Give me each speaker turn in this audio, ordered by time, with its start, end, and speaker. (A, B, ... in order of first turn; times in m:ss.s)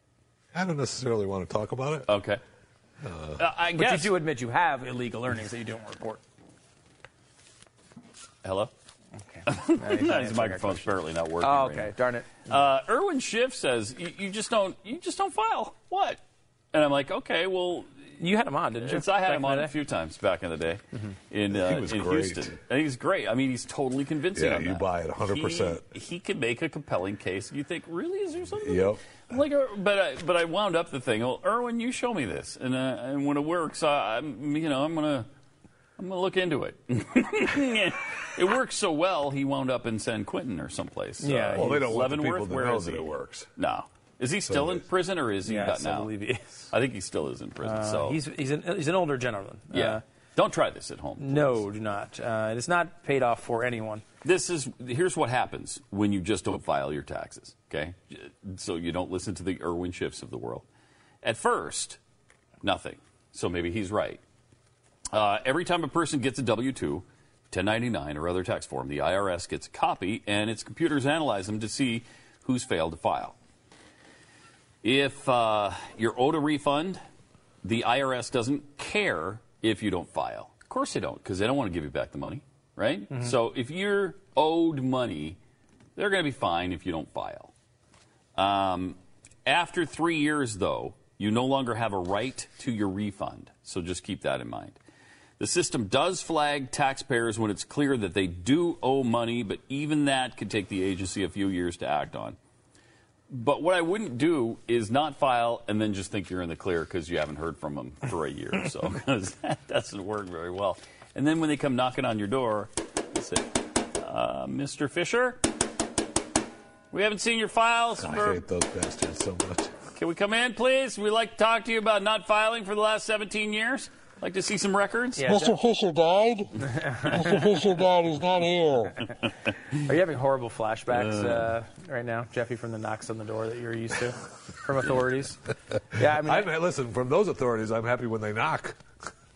0:00.5-0:02.1 A
0:02.1-0:02.4 B
0:03.0-0:03.4 A
0:03.4-0:04.1 B
0:03.7-0:06.2 C
0:08.4-0:08.7 B
0:09.3-0:12.5 C
0:09.4-0:16.2 B
0:16.7-0:18.1 B
0:18.2-0:19.7 C
0:18.8-0:35.3 B
0:21.5-0:22.6 A
0:24.3-0:25.8 A
0:28.6-0:29.1 A
0:36.0-0:46.1 B
0:41.2-0:41.9 C
0:41.5-0:43.5 A
0:44.5-0:44.8 A
0:45.4-0:46.7 C
0:46.7-0:48.2 B
0:47.6-0:50.0 C
0:49.7-0:51.6 B
0:51.2-0:54.0 C
0:54.2-1:00.6 B
1:01.2-1:02.0 B
1:02.6-1:04.2 B
1:05.1-1:13.3 B
1:14.8-1:17.0 B
1:17.6-1:25.4 B
1:26.0-1:27.5 B
1:28.4-1:34.8 B
1:35.4-1:42.4 B
1:43.3-1:55.4 B
1:56.9-1:58.4 B
1:58.0-1:59.7 A
1:59.9-2:05.3 B
2:05.2-2:05.6 C
2:05.5-2:06.5 D
2:06.6-2:07.3 C
2:07.2-2:08.9 D
2:07.3-2:08.9 A
2:09.7-2:16.5 C
2:10.9-2:11.4 B
2:15.9-2:18.8 A